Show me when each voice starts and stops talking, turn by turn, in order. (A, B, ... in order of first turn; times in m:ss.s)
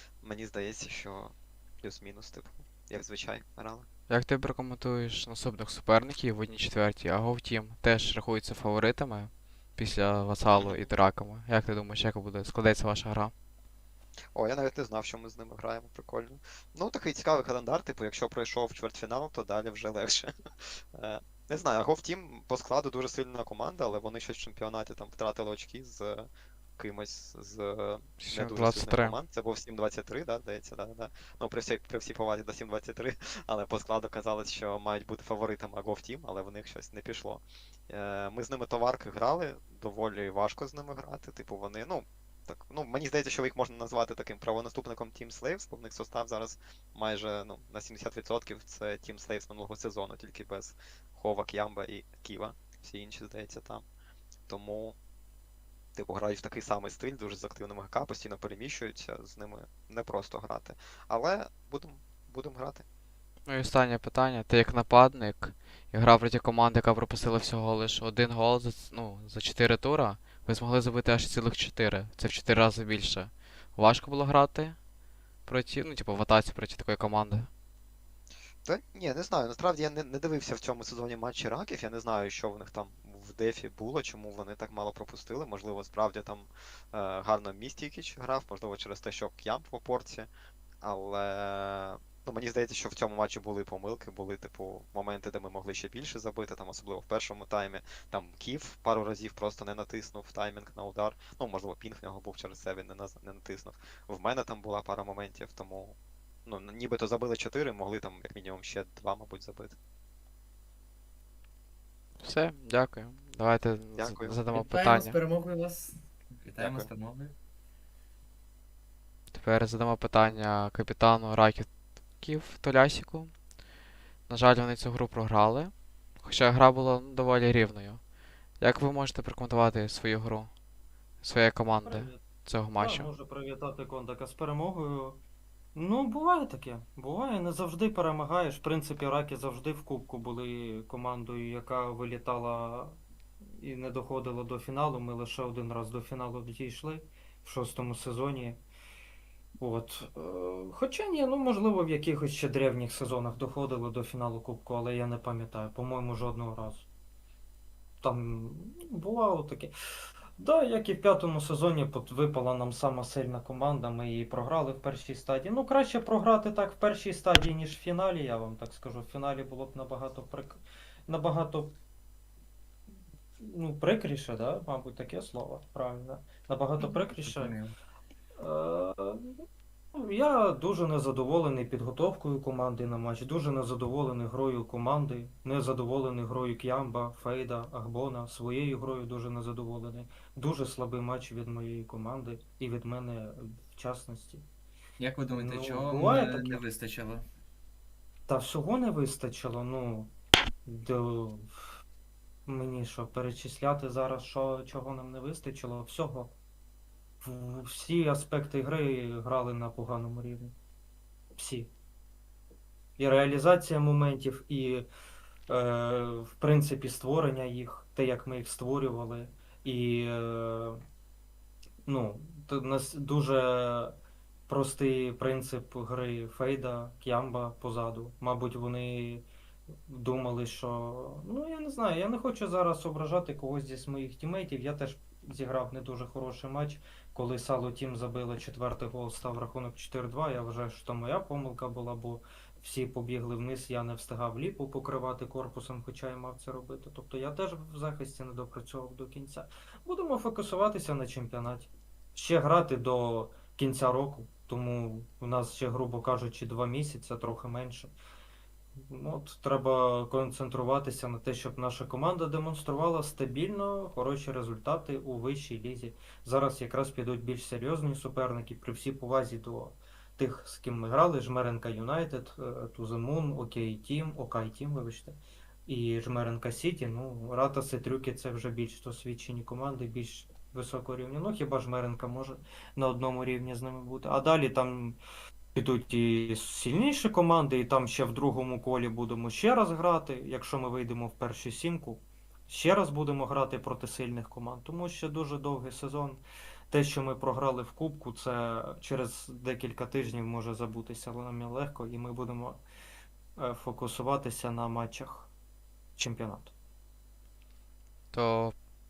0:00.2-0:03.9 A
0:04.1-0:13.3 B
0:10.6-0:10.9 A
0:14.3-0:53.8 A
0:28.2-0:29.2 B
0:54.5-0:55.0 A
0:55.9-1:02.8 A
1:03.5-1:14.8 B
1:15.5-1:17.5 B
1:18.6-1:30.3 A
1:30.8-1:49.8 A
1:52.2-1:55.2 B
1:54.0-1:54.3 A
1:54.5-1:57.3 C
1:56.6-1:56.9 A
1:59.3-2:01.7 B
2:02.2-2:03.3 B
2:04.3-2:08.0 B
2:08.6-2:10.5 B
2:11.2-2:13.1 B
2:11.8-2:12.2 D
2:12.8-2:15.2 D
2:15.7-2:23.0 D
2:23.6-2:28.6 D
2:29.6-2:36.8 D
2:38.0-2:39.7 D
2:40.4-2:51.8 D
2:53.4-2:57.6 D
2:56.8-2:57.7 C
2:58.4-2:59.3 D
2:59.9-3:14.4 D
3:15.0-3:17.2 C
3:15.3-3:16.6 D
3:18.3-3:20.1 D
3:20.6-3:21.5 D
3:22.5-3:26.3 D
3:27.2-3:30.5 D
3:31.4-3:31.7 D
3:33.0-3:34.9 D
3:35.5-3:40.8 D
3:41.8-3:44.0 D
3:44.5-3:49.2 D
3:49.9-4:17.9 D
4:18.9-4:45.0 D
4:45.5-5:02.6 D
5:03.4-5:05.3 D
5:06.0-5:06.5 D
5:08.1-5:08.5 B